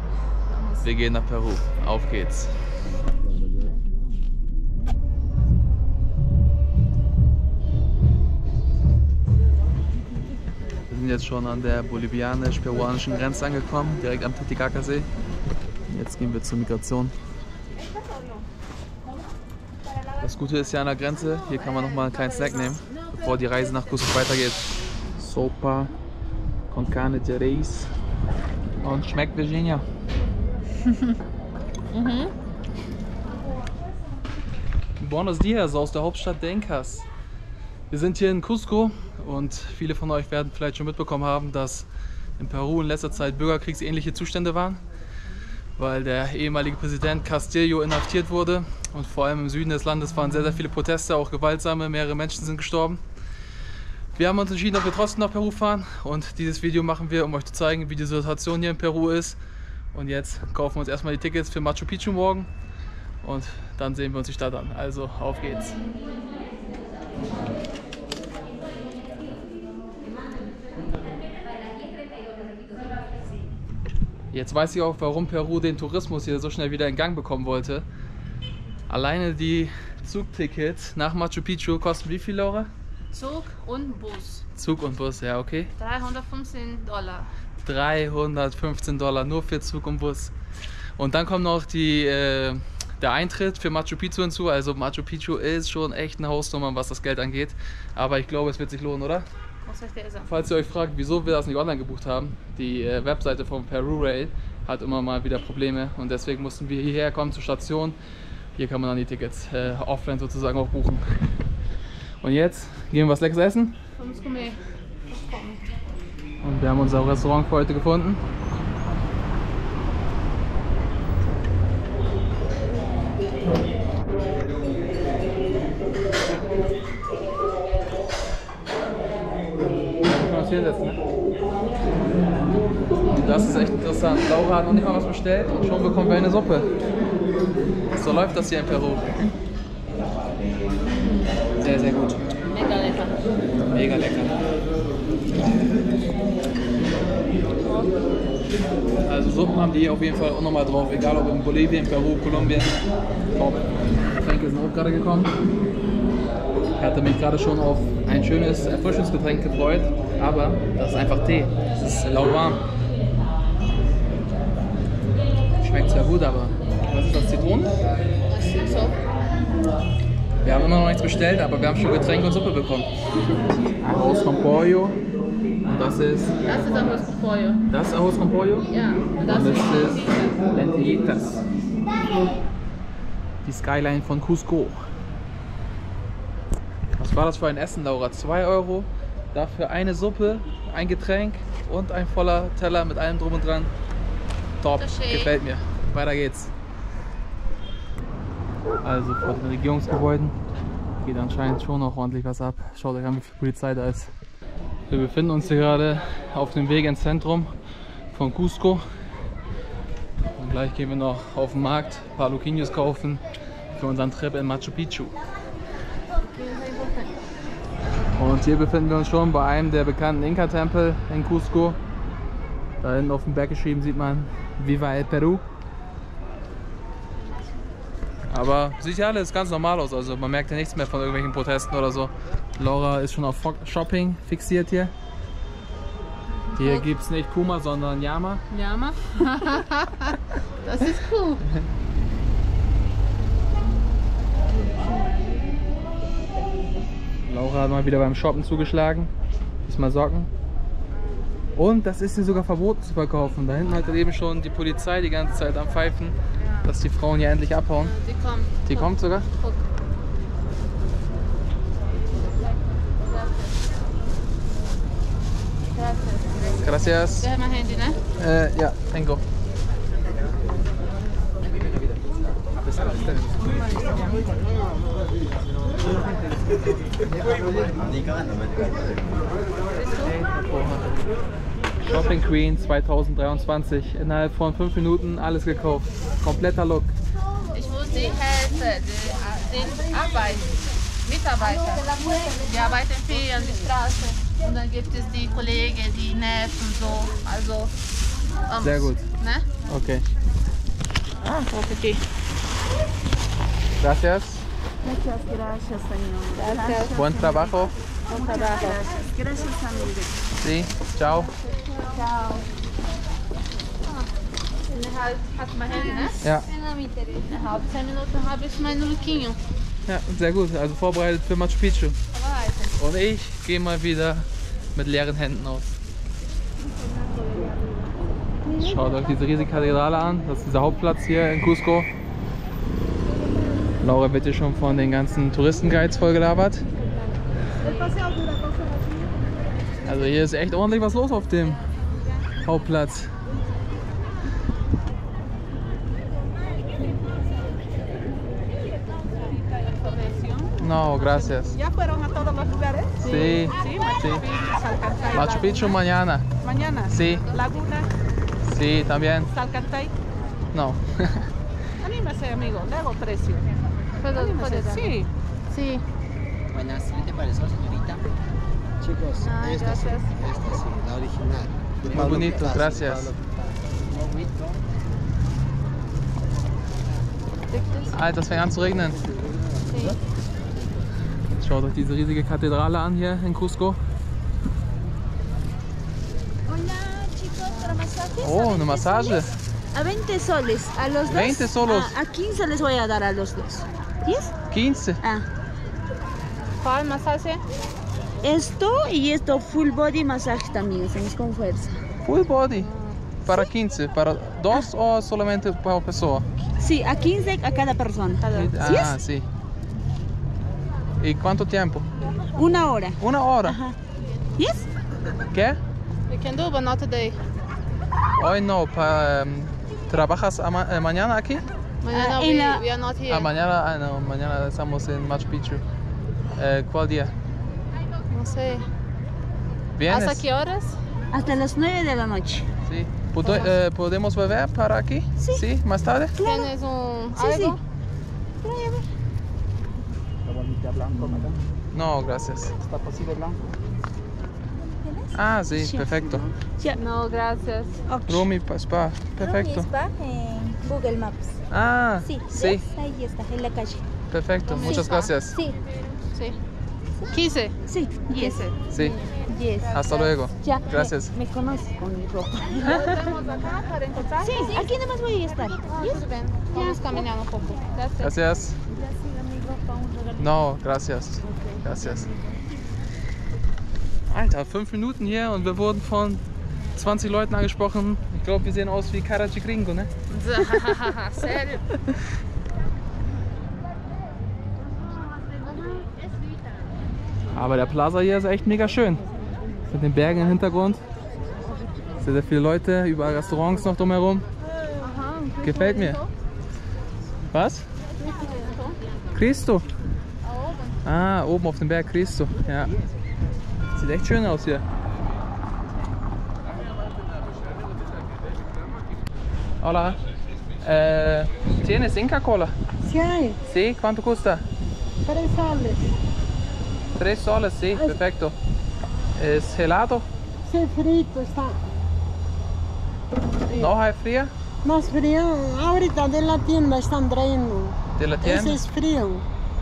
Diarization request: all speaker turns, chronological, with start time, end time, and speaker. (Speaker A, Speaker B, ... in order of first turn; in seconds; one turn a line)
Speaker A: 0.5-0.8
Speaker B: 0.8-2.5
Speaker B: 10.9-15.1
Speaker B: 15.9-17.1
Speaker B: 20.2-24.6
Speaker A: 21.7-23.4
Speaker B: 25.2-25.9
Speaker B: 26.7-27.9
Speaker B: 28.8-29.8
Speaker A: 30.9-31.1
Speaker A: 31.9-32.3
Speaker B: 35.0-37.0
Speaker B: 37.9-41.9
Speaker B: 42.4-44.8
Speaker B: 45.8-53.0
Speaker B: 54.1-59.4
Speaker B: 59.9-62.5
Speaker B: 63.2-65.8
Speaker B: 74.3-77.8
Speaker B: 78.9-82.7
Speaker A: 83.1-84.4
Speaker B: 84.5-85.7
Speaker A: 85.8-87.3
Speaker B: 87.6-90.3
Speaker B: 91.0-99.2
Speaker A: 99.7-100.3
Speaker B: 100.3-108.0
Speaker B: 108.5-111.0
Speaker B: 112.2-113.8
Speaker A: 114.0-115.7
Speaker B: 116.4-118.2
Speaker B: 130.0-131.0
Speaker B: 133.1-136.7
Speaker B: 137.9-139.1
Speaker A: 140.9-141.3
Speaker B: 141.6-142.2
Speaker A: 142.5-143.2
Speaker B: 143.7-144.3
Speaker A: 147.6-147.9
Speaker B: 149.1-152.8
Speaker B: 153.3-155.3
Speaker B: 156.8-162.6
Speaker B: 165.6-167.7
Speaker A: 168.3-169.0
Speaker B: 170.4-172.9
Speaker B: 173.8-175.0
Speaker B: 175.6-176.4
Speaker A: 176.4-177.6
Speaker B: 177.7-178.7
Speaker A: 178.7-180.4
Speaker B: 179.2-181.4
Speaker B: 183.4-184.8
Speaker B: 187.0-193.7
Speaker B: 194.6-196.5
Speaker A: 194.8-195.3
Speaker B: 198.8-200.3
Speaker B: 201.0-204.1
Speaker B: 204.9-207.5
Speaker B: 208.1-208.8
Speaker B: 210.4-213.2
Speaker B: 213.7-215.1
Speaker A: 216.2-217.1
Speaker B: 218.2-221.8
Speaker B: 222.8-225.4
Speaker B: 228.3-234.9
Speaker A: 236.5-236.8
Speaker B: 236.6-238.4
Speaker A: 238.5-241.4
Speaker A: 244.5-245.5
Speaker B: 247.2-249.1
Speaker B: 249.7-250.3
Speaker B: 251.5-257.9
Speaker A: 256.4-256.7
Speaker A: 257.8-259.6
Speaker B: 258.6-259.3
Speaker A: 263.0-263.6
Speaker A: 265.6-268.0
Speaker B: 266.6-267.3
Speaker B: 268.1-269.2
Speaker C: 272.7-273.2
Speaker C: 277.8-278.9
Speaker A: 279.7-280.1
Speaker B: 280.0-281.1
Speaker B: 281.8-286.9
Speaker A: 287.5-297.7
Speaker D: 291.4-292.7
Speaker A: 298.5-299.5
Speaker B: 298.6-299.0
Speaker B: 299.6-300.0
Speaker A: 301.2-302.0
Speaker B: 303.8-304.5
Speaker D: 304.8-310.2
Speaker A: 306.4-307.0
Speaker B: 306.9-307.7
Speaker A: 308.1-308.8
Speaker B: 310.4-311.3
Speaker A: 311.6-311.9
Speaker D: 311.8-312.4
Speaker A: 313.8-314.1
Speaker A: 314.7-316.2
Speaker D: 315.7-317.2
Speaker B: 316.2-316.5
Speaker A: 317.2-319.4
Speaker B: 319.9-321.9
Speaker A: 322.1-322.8
Speaker B: 322.8-325.8
Speaker A: 326.9-327.9
Speaker B: 328.5-331.9
Speaker B: 333.8-336.6
Speaker A: 337.6-337.9
Speaker B: 339.8-341.6
Speaker B: 342.4-343.1
Speaker A: 349.5-351.7
Speaker B: 350.6-351.6
Speaker A: 353.0-355.7
Speaker B: 353.0-354.3
Speaker B: 355.1-356.2
Speaker A: 356.4-357.8
Speaker B: 356.9-357.3
Speaker B: 358.4-359.3
Speaker A: 359.3-359.8
Speaker B: 360.5-361.3
Speaker A: 362.4-362.8
Speaker A: 364.0-365.8
Speaker E: 364.1-364.9
Speaker C: 366.5-368.0
Speaker C: 368.9-373.2
Speaker A: 369.2-370.3
Speaker B: 371.9-373.1
Speaker C: 373.9-374.3
Speaker A: 377.5-378.0
Speaker B: 377.9-379.0
Speaker A: 379.7-380.0
Speaker B: 381.4-383.8
Speaker D: 386.5-394.3
Speaker B: 388.2-389.3
Speaker B: 391.1-391.9
Speaker B: 394.5-395.0
Speaker D: 395.0-395.3
Speaker A: 396.6-397.4
Speaker D: 398.2-401.8
Speaker B: 402.0-402.7
Speaker A: 402.6-403.0
Speaker B: 403.2-406.3
Speaker D: 406.6-409.0
Speaker A: 408.2-408.6
Speaker B: 408.3-409.3
Speaker B: 411.0-411.9
Speaker D: 412.4-413.8
Speaker B: 413.0-413.6
Speaker D: 414.4-414.6
Speaker B: 415.3-415.6
Speaker A: 416.1-417.2
Speaker B: 418.1-421.4
Speaker A: 421.8-423.3
Speaker D: 421.9-422.6
Speaker B: 423.1-425.6
Speaker B: 426.3-427.1
Speaker A: 428.1-428.6
Speaker B: 429.8-430.2
Speaker A: 429.9-430.8
Speaker D: 431.1-432.5
Speaker B: 432.6-436.1
Speaker A: 433.2-433.5
Speaker D: 436.2-436.5
Speaker A: 436.2-437.6
Speaker D: 437.1-437.6
Speaker D: 438.4-438.9
Speaker D: 440.9-441.3
Speaker B: 441.7-442.6
Speaker D: 444.7-446.8
Speaker B: 445.1-446.2
Speaker A: 446.7-447.8
Speaker D: 447.9-448.3
Speaker B: 448.1-449.7
Speaker D: 449.2-451.4
Speaker B: 451.5-452.6
Speaker D: 452.0-453.8
Speaker B: 454.1-455.4
Speaker A: 454.4-455.1
Speaker D: 454.5-455.6
Speaker A: 456.1-456.4
Speaker A: 457.1-457.5
Speaker D: 457.7-463.1
Speaker A: 458.1-458.5
Speaker B: 458.7-459.0
Speaker A: 459.6-460.1
Speaker B: 459.7-461.1
Speaker A: 462.6-464.7
Speaker D: 464.2-467.1
Speaker A: 465.7-468.1
Speaker B: 468.0-468.6
Speaker D: 468.7-470.3
Speaker B: 470.2-472.1
Speaker D: 471.3-472.2
Speaker B: 474.1-476.2
Speaker B: 476.7-479.9
Speaker A: 480.1-481.6
Speaker A: 485.3-485.8
Speaker B: 487.3-489.0
Speaker B: 489.7-490.8
Speaker B: 492.0-494.2
Speaker A: 494.8-496.1
Speaker B: 495.4-496.0
Speaker B: 497.3-497.6
Speaker A: 498.0-498.8
Speaker B: 499.1-499.7
Speaker A: 500.2-500.8
Speaker B: 500.8-502.7
Speaker B: 503.7-504.6
Speaker B: 509.6-510.0
Speaker B: 510.6-512.5
Speaker E: 512.8-513.4
Speaker B: 513.4-514.4
Speaker E: 515.0-515.9
Speaker B: 517.0-518.4
Speaker B: 519.1-520.0
Speaker E: 520.5-521.6
Speaker B: 523.5-524.3
Speaker E: 524.6-529.2
Speaker B: 528.0-528.6